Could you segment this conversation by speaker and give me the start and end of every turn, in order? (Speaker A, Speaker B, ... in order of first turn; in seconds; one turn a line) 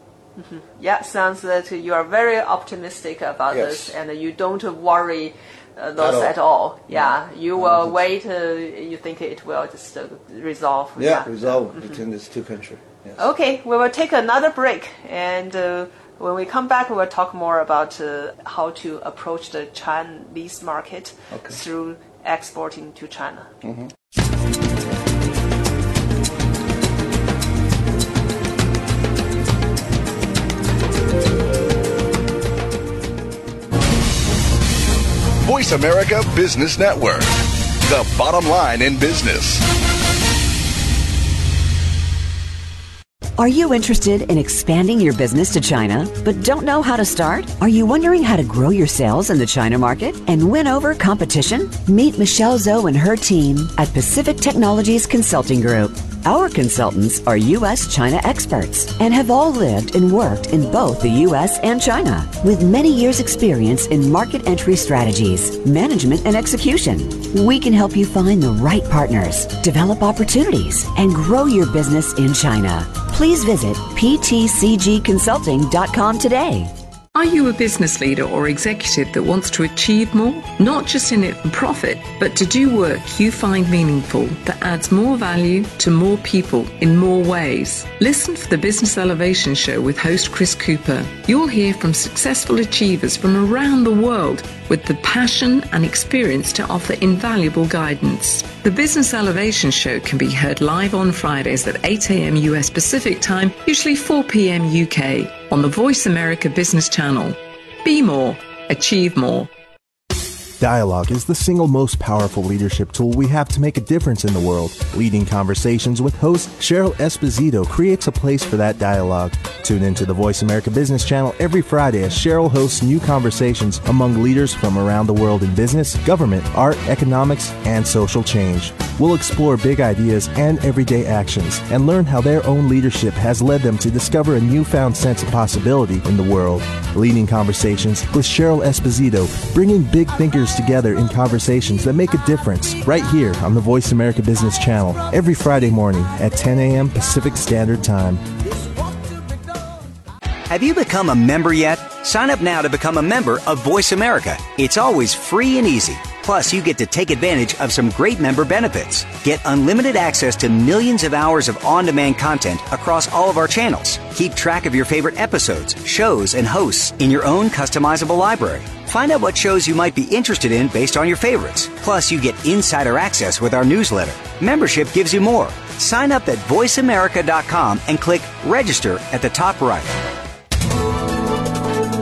Speaker A: 0.4-12.0
Speaker B: 3.5-3.9
Speaker B: 6.0-6.3
Speaker B: 6.9-8.1
Speaker B: 10.9-13.2
Speaker A: 13.2-23.5
Speaker B: 21.3-21.6
Speaker B: 23.6-23.9
Speaker C: 35.4-39.6
Speaker D: 43.4-76.7
Speaker E: 77.1-109.5
Speaker F: 110.6-148.2
Speaker G: 150.5-179.9